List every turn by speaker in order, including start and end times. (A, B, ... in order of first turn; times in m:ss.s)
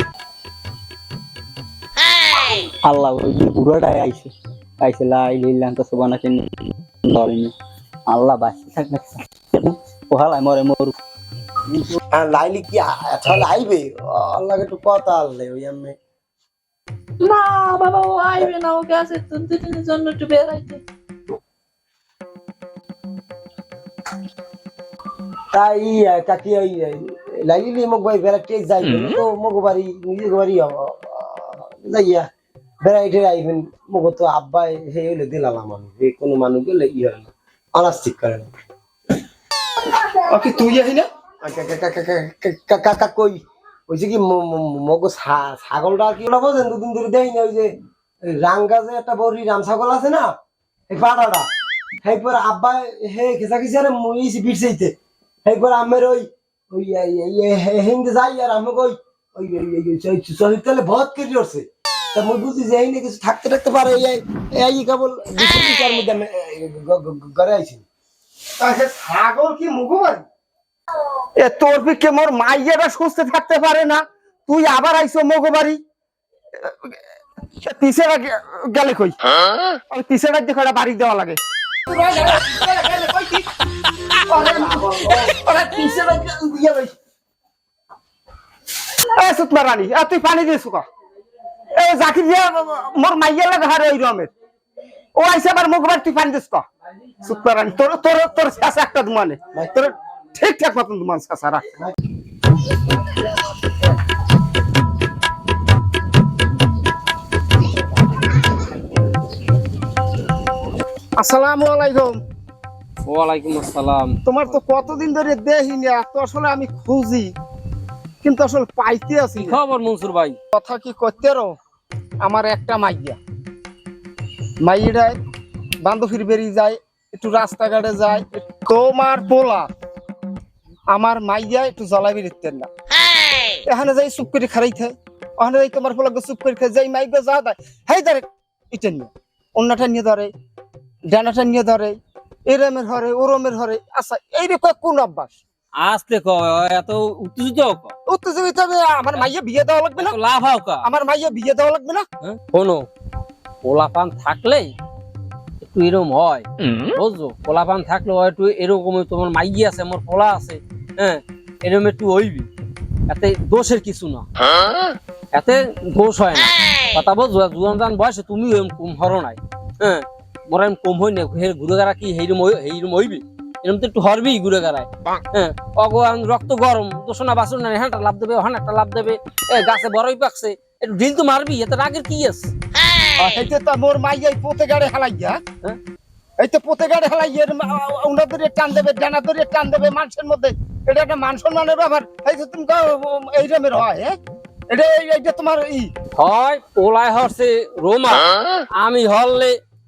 0:02.8-0:07.5 A
0:08.1-0:11.0 A
0:12.1-0:16.0 B
0:17.2-0:20.8 C
0:25.5-0:32.3 B
0:32.8-0:38.5 B
0:40.2-0:41.1 D
0:41.4-0:47.7 B
0:48.3-0:50.3 B
0:50.9-0:51.5 B
0:52.0-1:07.8 B
1:08.6-1:10.2 D
1:11.4-1:15.8 D
1:16.6-1:17.0 D
1:17.6-1:19.2 D
1:19.9-1:23.5 D
1:24.3-1:26.9 D
1:29.2-1:30.9 D
1:31.8-1:34.3 D
1:35.2-1:36.7 D
1:37.2-1:41.7 D
1:51.2-1:52.2 D
1:53.1-1:54.6 E
1:54.3-1:57.3 D
1:58.2-1:59.6 D
1:59.4-2:00.4 E
2:00.5-2:01.5 D
2:02.2-2:03.2 D
2:04.6-2:05.2 D
2:05.8-2:09.7 D
2:10.9-2:12.7 D
2:13.7-2:20.3 D
2:21.1-2:25.4 D
2:25.8-2:27.9 E
2:28.1-2:30.2 D
2:30.0-2:30.9 E
2:30.8-2:32.1 D
2:32.2-2:32.9 E
2:33.6-2:34.7 E
2:35.6-2:42.5 E
2:43.1-2:44.3 E
2:45.3-3:02.5 E
3:03.2-3:05.4 D
3:06.4-3:14.2 D
3:14.7-3:15.9 D
3:16.2-3:18.3 E
3:18.8-3:19.6 E